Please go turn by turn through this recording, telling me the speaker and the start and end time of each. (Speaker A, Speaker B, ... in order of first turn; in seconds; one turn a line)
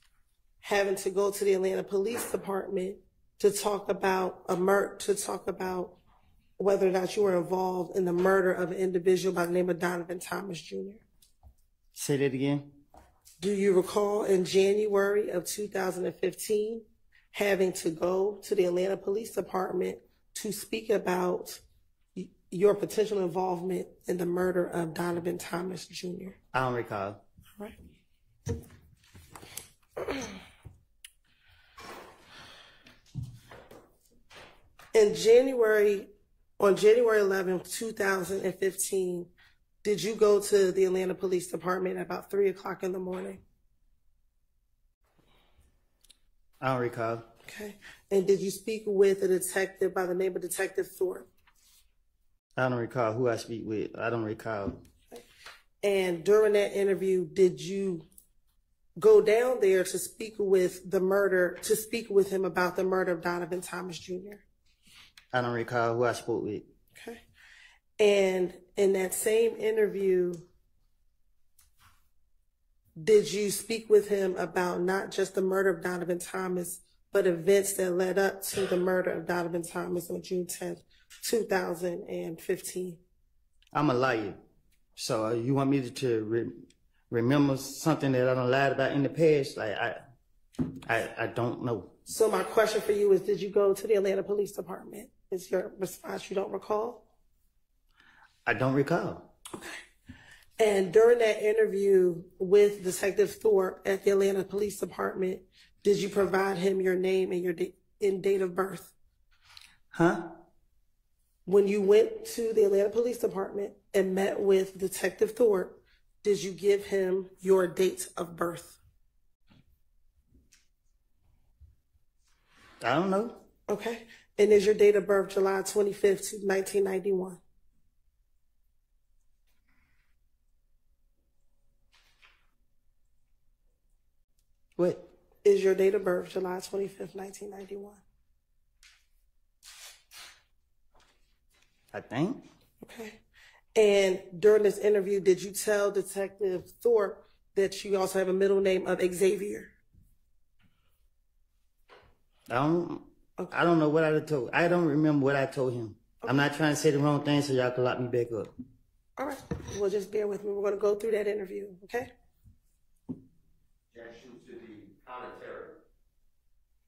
Speaker A: 0.6-6.0
Speaker A: 6.6-11.0
Speaker B: 11.9-12.7
Speaker A: 13.4-21.6
Speaker A: 22.1-26.3
Speaker B: 26.5-27.2
Speaker A: 34.9-39.3
Speaker A: 39.8-43.4
Speaker B: 46.6-47.2
Speaker A: 47.4-51.3
Speaker B: 52.6-54.8
Speaker A: 55.8-58.0
Speaker A: 59.0-64.4
Speaker B: 65.3-66.6
Speaker A: 66.9-67.2
Speaker A: 68.0-70.4
Speaker A: 73.0-83.0
Speaker B: 83.7-84.4
Speaker B: 85.0-86.5
Speaker B: 87.1-90.0
Speaker B: 90.8-91.9
Speaker A: 92.1-97.0
Speaker B: 98.5-99.3
Speaker A: 99.5-99.8
Speaker A: 100.6-108.9
Speaker B: 109.9-110.2
Speaker A: 111.5-118.8
Speaker B: 122.8-123.4
Speaker A: 123.7-127.4
Speaker B: 134.8-135.0
Speaker A: 135.4-138.0
Speaker B: 141.9-142.4
Speaker A: 142.8-143.2
Speaker A: 143.7-149.7
Speaker B: 152.5-158.5
Speaker A: 159.2-162.1